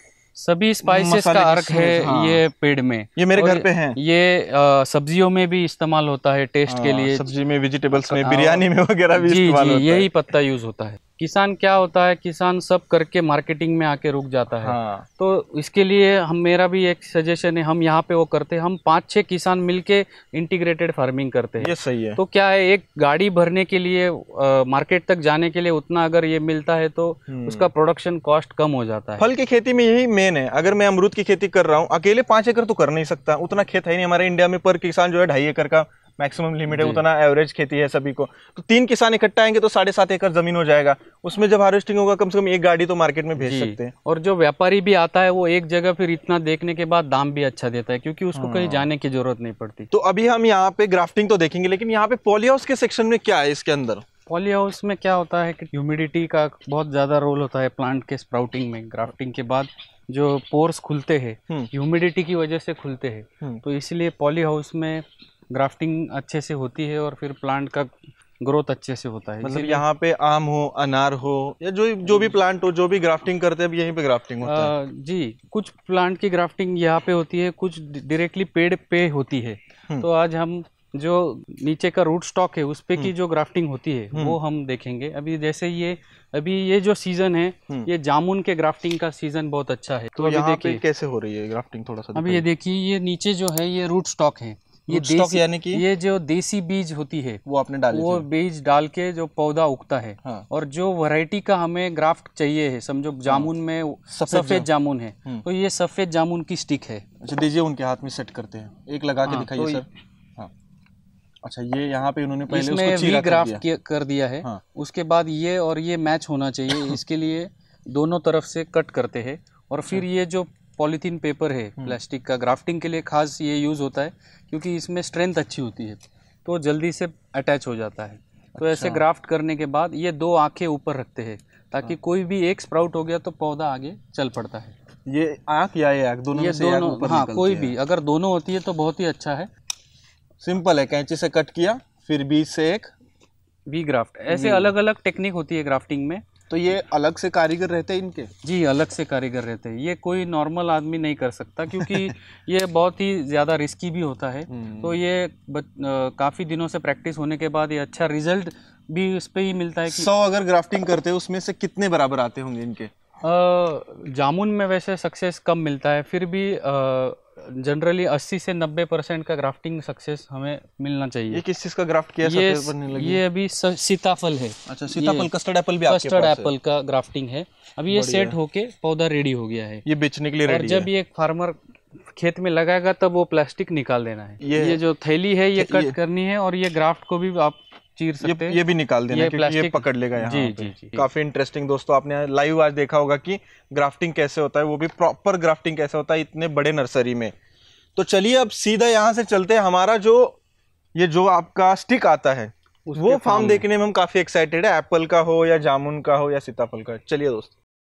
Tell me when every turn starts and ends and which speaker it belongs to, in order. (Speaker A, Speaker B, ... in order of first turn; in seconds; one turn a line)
Speaker A: 0.4-7.3
Speaker B: 0.8-2.4
Speaker B: 3.2-4.0
Speaker B: 6.7-10.1
Speaker A: 7.9-8.6
Speaker A: 9.2-29.3
Speaker B: 14.6-15.1
Speaker B: 21.6-22.2
Speaker B: 27.3-27.7
Speaker B: 29.2-43.9
Speaker A: 36.7-37.0
Speaker A: 43.4-49.9
Speaker B: 48.4-48.9
Speaker B: 49.9-54.0
Speaker A: 54.3-69.8
Speaker B: 69.4-74.7
Speaker A: 74.4-90.8
Speaker B: 90.2-92.5
Speaker A: 92.1-107.0
Speaker B: 94.9-95.8
Speaker B: 97.5-98.3
Speaker B: 104.1-104.7
Speaker B: 107.2-110.5
Speaker A: 109.2-109.9
Speaker B: 111.4-113.6
Speaker A: 112.5-134.8
Speaker B: 128.6-129.0
Speaker B: 135.1-137.8
Speaker A: 136.3-139.5
Speaker B: 140.4-142.9
Speaker A: 143.7-146.2
Speaker B: 144.3-144.7
Speaker B: 146.5-148.3
Speaker A: 148.4-160.1
Speaker B: 151.8-152.1
Speaker B: 154.5-155.0
Speaker B: 159.9-162.9
Speaker A: 163.2-171.4
Speaker B: 171.3-173.2
Speaker A: 172.2-175.3
Speaker B: 174.7-176.5
Speaker A: 175.8-179.8
Speaker B: 177.9-178.3
Speaker B: 179.8-180.9
Speaker A: 180.5-181.6
Speaker A: 182.1-188.6
Speaker B: 184.4-184.8
Speaker B: 185.6-186.0
Speaker B: 188.2-197.3
Speaker A: 189.1-191.1
Speaker B: 198.0-200.4
Speaker B: 200.9-207.5
Speaker A: 202.9-203.7